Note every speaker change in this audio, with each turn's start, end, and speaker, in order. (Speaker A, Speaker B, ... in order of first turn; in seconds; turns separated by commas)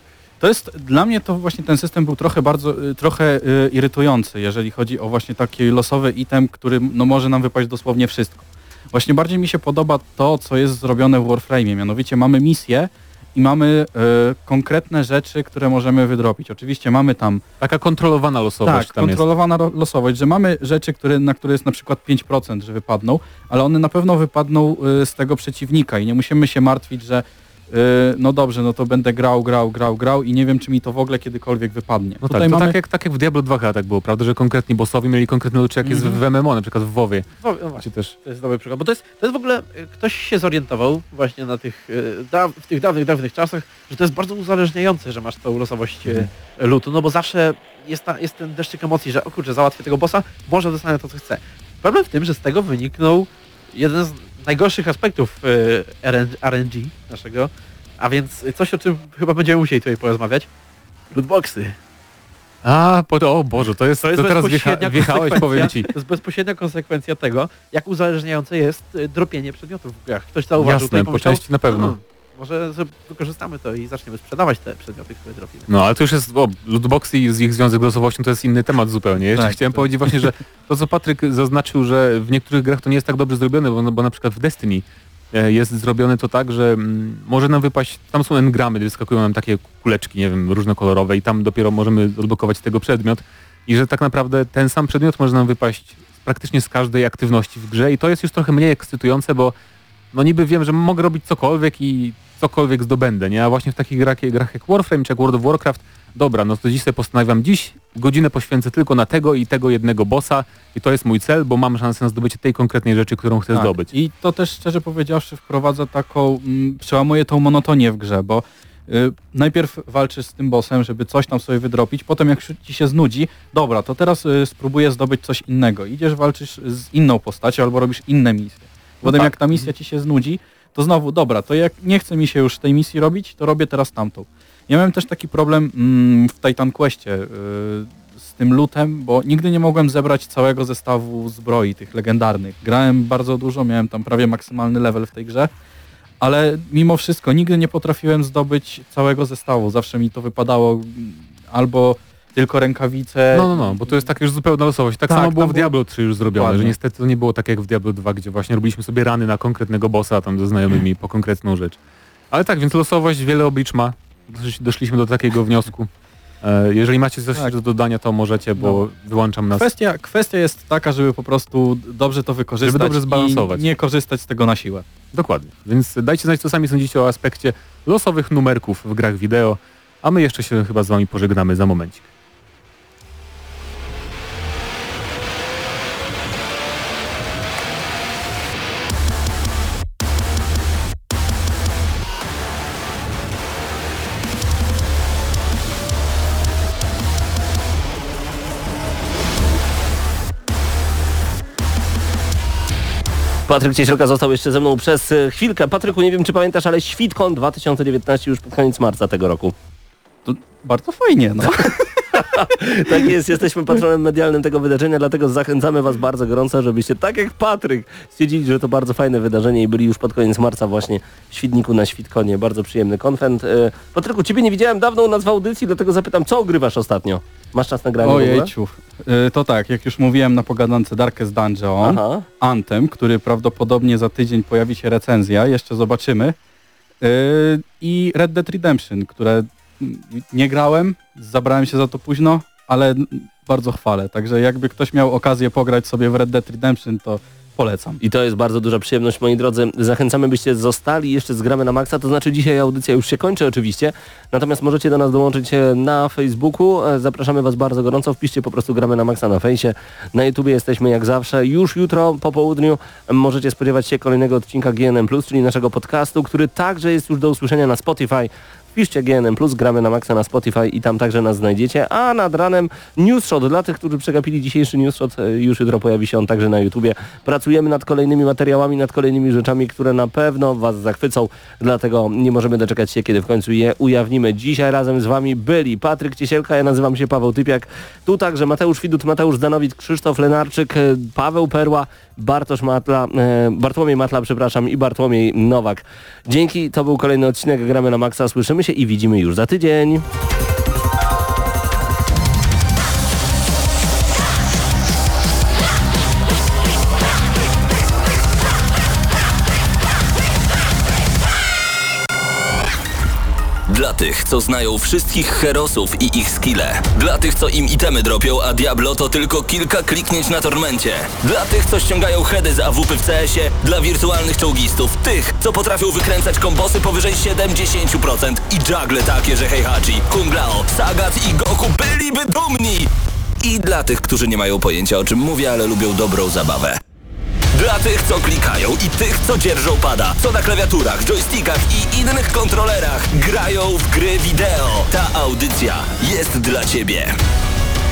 Speaker A: 0.4-17.4, Speaker B: 17.6-19.2, Speaker A: 18.6-32.8, Speaker B: 32.2-38.1, Speaker A: 35.8-36.2, Speaker C: 37.4-60.5, Speaker C: 61.1-61.8, Speaker B: 62.6-65.9, Speaker C: 64.0-75.7, Speaker B: 70.6-72.0, Speaker B: 75.7-99.5, Speaker A: 79.2-80.3, Speaker B: 100.1-113.9, Speaker A: 113.5-145.5, Speaker A: 146.2-154.1, Speaker B: 153.3-161.8, Speaker A: 155.1-155.7, Speaker A: 156.3-156.7, Speaker B: 162.3-165.9, Speaker B: 166.4-169.7, Speaker A: 168.6-168.8, Speaker A: 169.5-174.9, Speaker B: 172.6-173.7, Speaker B: 175.1-182.1, Speaker D: 203.5-209.5, Speaker A: 210.2-212.3, Speaker D: 212.1-228.5, Speaker A: 228.0-236.4, Speaker D: 231.8-232.2, Speaker A: 237.0-248.0, Speaker D: 248.0-300.1, Speaker E: 313.7-336.8, Speaker E: 337.5-347.1